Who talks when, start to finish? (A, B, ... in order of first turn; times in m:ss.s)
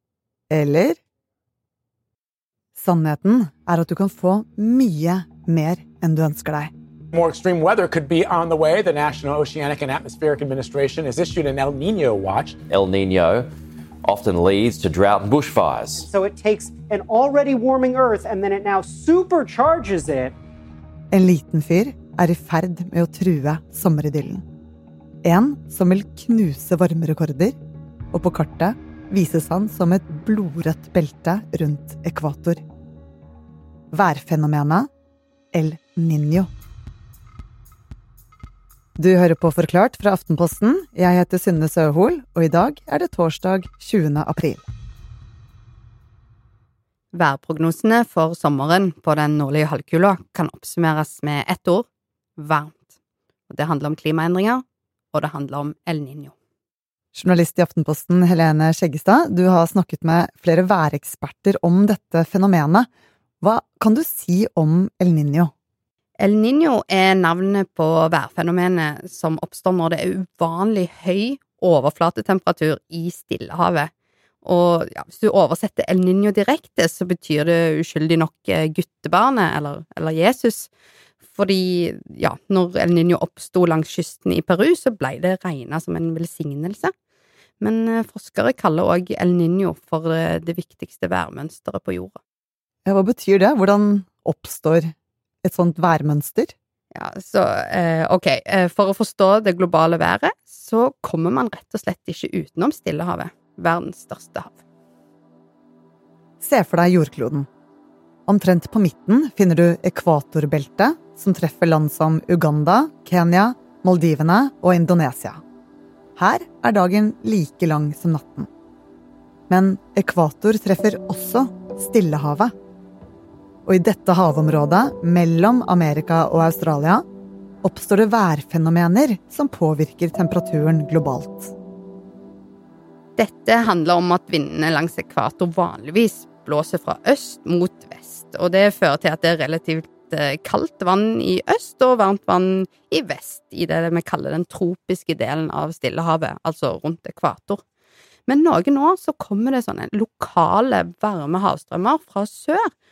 0:00.5-0:01.0 A
0:02.8-0:06.7 A
0:07.1-0:12.6 B
0:12.7-0:13.5 C
0:14.0-0:16.0 C
0:15.9-0:20.4 D
0:21.1-0:24.4 A
0:25.2-0:27.6 A
0:28.1-0:32.6 A
0:33.9-0:34.9 A
0:35.5-0:36.5 A
0:39.0-0:44.6 A
0:47.1-0:52.9 E
0:53.5-0:56.3 E
0:57.1-1:02.9 A
1:03.4-1:05.5 A
1:06.2-1:13.9 E
1:14.4-1:20.7 E
1:21.3-1:26.9 E
1:27.6-1:32.2 E
1:32.8-1:36.5 A
1:36.9-1:44.6 E
1:46.4-1:47.5 A
1:48.3-1:55.4 A
1:56.2-1:58.5 A
1:59.5-2:02.5 A
2:03.6-2:07.0 A
2:07.6-2:11.5 A
2:13.2-2:27.6 E
2:28.3-2:32.7 E